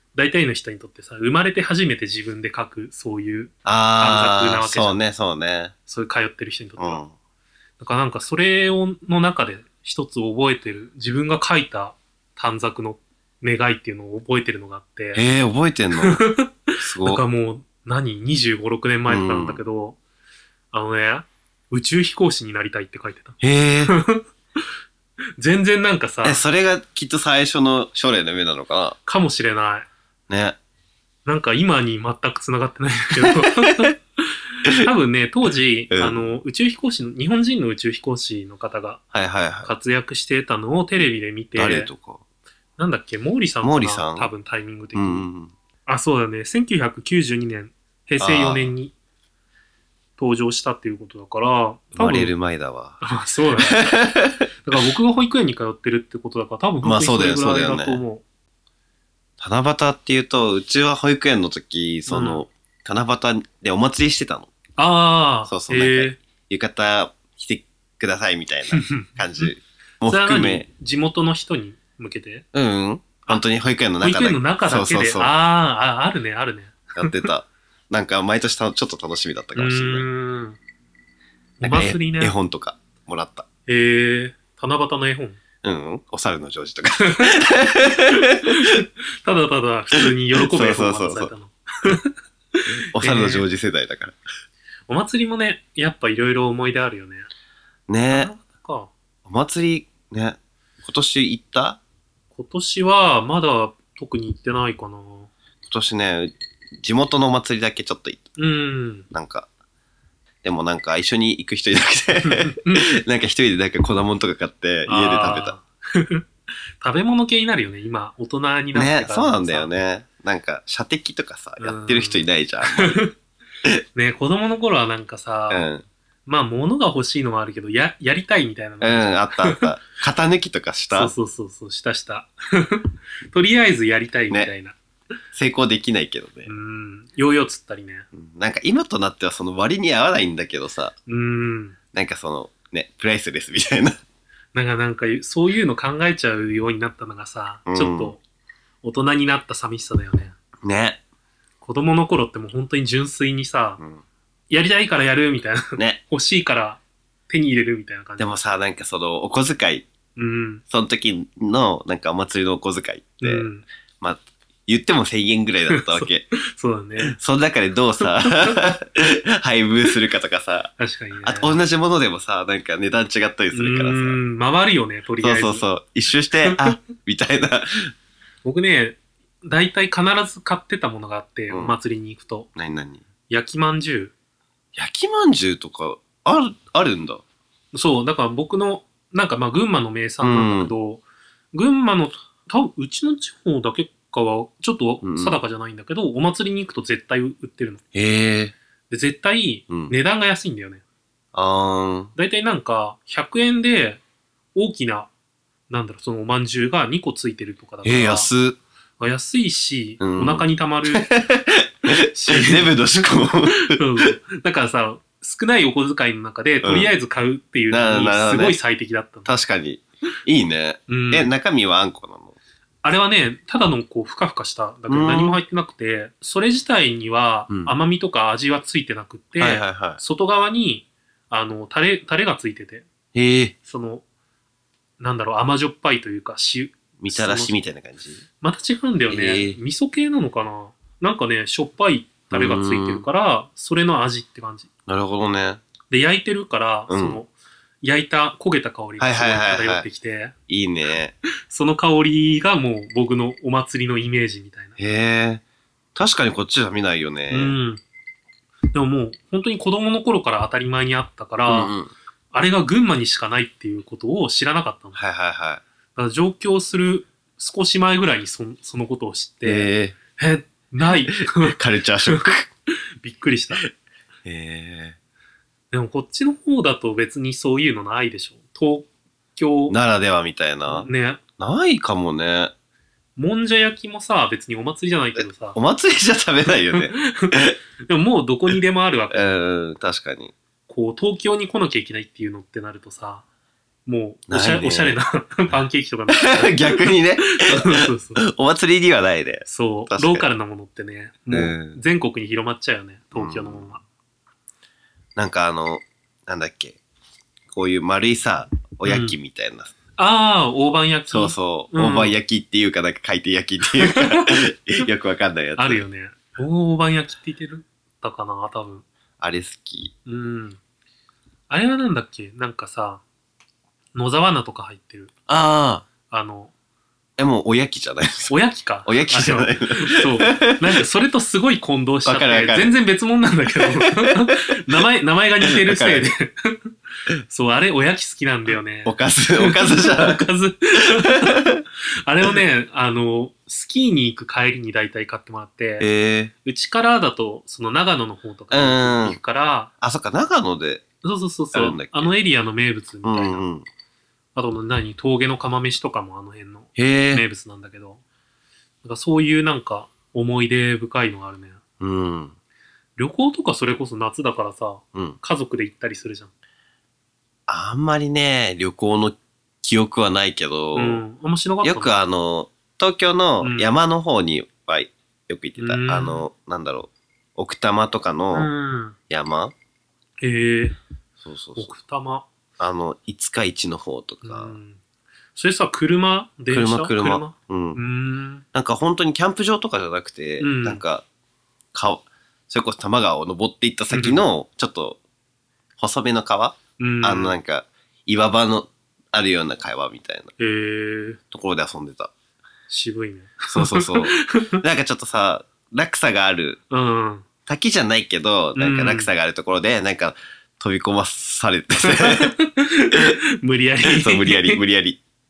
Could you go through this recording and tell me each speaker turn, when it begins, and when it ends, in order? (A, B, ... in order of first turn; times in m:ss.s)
0:00.1-0:05.0 A
0:03.6-0:05.7 B
0:05.9-0:07.0 A
0:06.8-0:07.1 B
0:07.8-0:15.2 A
0:15.1-0:16.2 B
0:16.0-0:20.0 A
0:16.8-0:17.2 B
0:19.1-0:19.6 B
0:20.7-0:24.2 A
0:23.4-0:23.9 B
0:25.4-0:26.4 A
0:26.2-0:29.0 B
0:29.0-0:29.9 A
0:30.3-0:30.6 B
0:31.2-0:39.0 A
0:33.2-0:33.9 B
0:35.9-0:36.2 B
0:39.1-0:39.7 B
0:39.6-0:41.9 A
0:41.6-0:42.2 B
0:42.8-0:45.3 A
0:43.6-0:44.3 B
0:45.0-0:45.5 B
0:45.8-0:48.9 A
0:48.2-0:48.7 B
0:50.2-0:52.3 A
0:51.9-0:53.0 B
0:53.0-0:54.0 A
0:53.6-0:54.5 B
0:54.6-0:58.2 A
0:56.8-0:58.0 B
0:59.4-1:04.5 B
1:02.1-1:02.4 A
1:04.8-1:06.2 A
1:05.5-1:10.6 B
1:08.7-1:09.5 A
1:10.0-1:12.4 A
1:12.5-1:15.3 B
1:14.0-1:17.3 A
1:16.9-1:20.0 B
1:19.6-1:20.6 A
1:21.6-1:22.3 A
1:21.6-1:23.4 B
1:23.7-1:25.4 A
1:25.6-1:28.7 B
1:27.0-1:33.4 A
1:30.0-1:31.3 B
1:32.9-1:34.2 B
1:34.9-1:37.3 A
1:37.9-1:38.3 B
1:38.1-1:38.9 A
1:39.2-1:41.8 B
1:42.3-1:45.3 A
1:45.6-1:48.2 B
1:48.4-1:49.1 A
1:49.1-1:49.5 B
1:50.4-1:55.5 B
1:52.2-1:52.9 A
1:54.8-1:56.2 A
1:56.8-1:59.7 A
1:58.7-2:03.0 B
2:01.6-2:03.1 A
2:03.9-2:05.7 A
2:05.5-2:05.8 B
2:06.2-2:09.6 A
2:08.8-2:11.1 B
2:10.9-2:14.8 A
2:15.3-2:16.5 B
2:16.4-2:18.1 A
2:18.1-2:20.9 B
2:21.1-2:21.8 A
2:21.9-2:24.0 B
2:24.5-2:28.2 A
2:27.7-2:28.1 B
2:28.8-2:30.3 A
2:30.6-2:31.0 B
2:31.6-2:33.8 A
2:34.5-2:38.3 A
2:38.2-2:39.9 B
2:40.2-2:40.6 A
2:40.7-2:43.5 B
2:43.2-2:43.6 A
2:44.0-2:46.3 B
2:45.7-2:47.2 A
2:47.0-2:54.2 B
2:48.0-2:48.8 A
2:50.8-2:51.6 A
2:53.5-2:55.6 A
2:55.2-2:57.9 B
2:58.4-3:02.5 A
3:01.5-3:01.8 B
3:02.6-3:03.0 B
3:03.3-3:04.1 A
3:04.7-3:07.2 B
3:07.7-3:17.8 A
3:10.2-3:10.7 B
3:15.0-3:15.4 B
3:17.9-3:18.5 B
3:18.9-3:20.8 A
3:21.3-3:22.1 B
3:22.1-3:24.0 A
3:24.5-3:25.1 A
3:25.7-3:28.3 A
3:27.8-3:28.6 B
3:29.0-3:31.1 A
3:30.0-3:34.1 B
3:31.9-3:32.7 A
3:33.5-3:39.3 A
3:36.6-3:36.9 B
3:37.7-3:38.6 B
3:39.2-3:42.4 B
3:40.9-3:41.3 A
3:42.8-3:52.9 A
3:44.9-3:45.4 B
3:49.4-3:50.0 B
3:53.1-3:53.5 B
3:53.6-3:54.0 A
3:55.0-3:57.6 A
3:57.0-3:58.2 B
3:58.4-4:04.7 A
3:59.1-3:59.6 B
4:02.3-4:03.0 B
4:04.9-4:05.6 B
4:05.9-4:07.3 A
4:06.9-4:07.2 B
4:07.8-4:10.3 A
4:09.0-4:09.9 B
4:10.5-4:11.1 B
4:11.5-4:14.8 A
4:14.8-4:15.4 B
4:15.9-4:17.5 B
4:17.3-4:17.8 A
4:18.7-4:21.7 A
4:21.4-4:21.9 B
4:22.3-4:25.0 A
4:24.9-4:25.6 B
4:26.0-4:31.6 A
4:29.4-4:30.0 B
4:30.9-4:32.5 B
4:32.1-4:32.3 A
4:33.0-4:33.6 A
4:34.2-4:35.0 B
4:35.7-4:39.8 A
4:39.7-4:42.5 B
4:40.7-4:41.2 A
4:43.2-4:45.6 A
4:45.2-4:47.5 B
4:46.7-4:49.4 A
4:49.1-4:50.3 B
4:50.7-4:53.2 A
4:53.8-4:58.2 A
4:54.3-4:55.0 B
4:56.1-5:00.2 B
4:59.5-5:03.8 A
5:01.3-5:01.8 B
5:03.1-5:03.7 B
5:05.2-5:06.8 B
5:07.5-5:09.7 B
5:08.8-5:09.1 A
5:10.0-5:12.1 A
5:11.1-5:15.8 B
5:13.7-5:14.4 A
5:15.6-5:18.8 A
5:19.2-5:19.9 B
5:20.0-5:20.6 A
5:21.5-5:23.0 A
5:23.9-5:25.1 A
5:25.3-5:25.8 B
5:26.1-5:26.5 A
5:27.2-5:28.3 B
5:28.3-5:36.7 A
5:28.8-5:30.8 B
5:32.0-5:32.7 B
5:33.6-5:34.4 B
5:35.4-5:36.1 B
5:37.2-5:41.4 A
5:38.8-5:40.2 B
5:41.0-5:41.6 B
5:42.0-5:45.9 A
5:45.8-5:46.3 B
5:46.4-5:49.7 A
5:48.5-5:49.2 B
5:49.8-5:50.8 B
5:51.0-5:53.5 A
5:51.5-5:52.1 B
5:53.0-5:53.6 B
5:54.3-5:58.0 A
5:56.8-5:57.2 B
5:58.8-6:01.6 A
6:01.8-6:02.3 B
6:03.0-6:06.3 A
6:07.5-6:11.0 B
6:10.7-6:11.9 A
6:11.6-6:18.5 B
6:13.4-6:13.7 A
6:15.6-6:16.3 A
6:18.3-6:19.0 A
6:19.1-6:19.5 B
6:20.2-6:20.8 A
6:21.2-6:21.7 B
6:21.6-6:22.3 A
6:22.6-6:24.6 B
6:24.2-6:24.8 A
6:25.4-6:28.4 A
6:26.5-6:27.8 B
6:28.5-6:31.0 B
6:30.4-6:30.8 A
6:31.7-6:35.0 B
6:33.9-6:34.2 A
6:35.8-6:40.3 B
6:36.8-6:37.4 A
6:40.4-6:41.2 A
6:41.3-6:42.1 B
6:42.7-6:44.6 A
6:43.5-6:46.6 B
6:46.7-6:47.2 A
6:47.5-6:52.3 B
6:48.5-6:49.1 A
6:51.8-6:54.6 A
6:53.9-6:55.0 B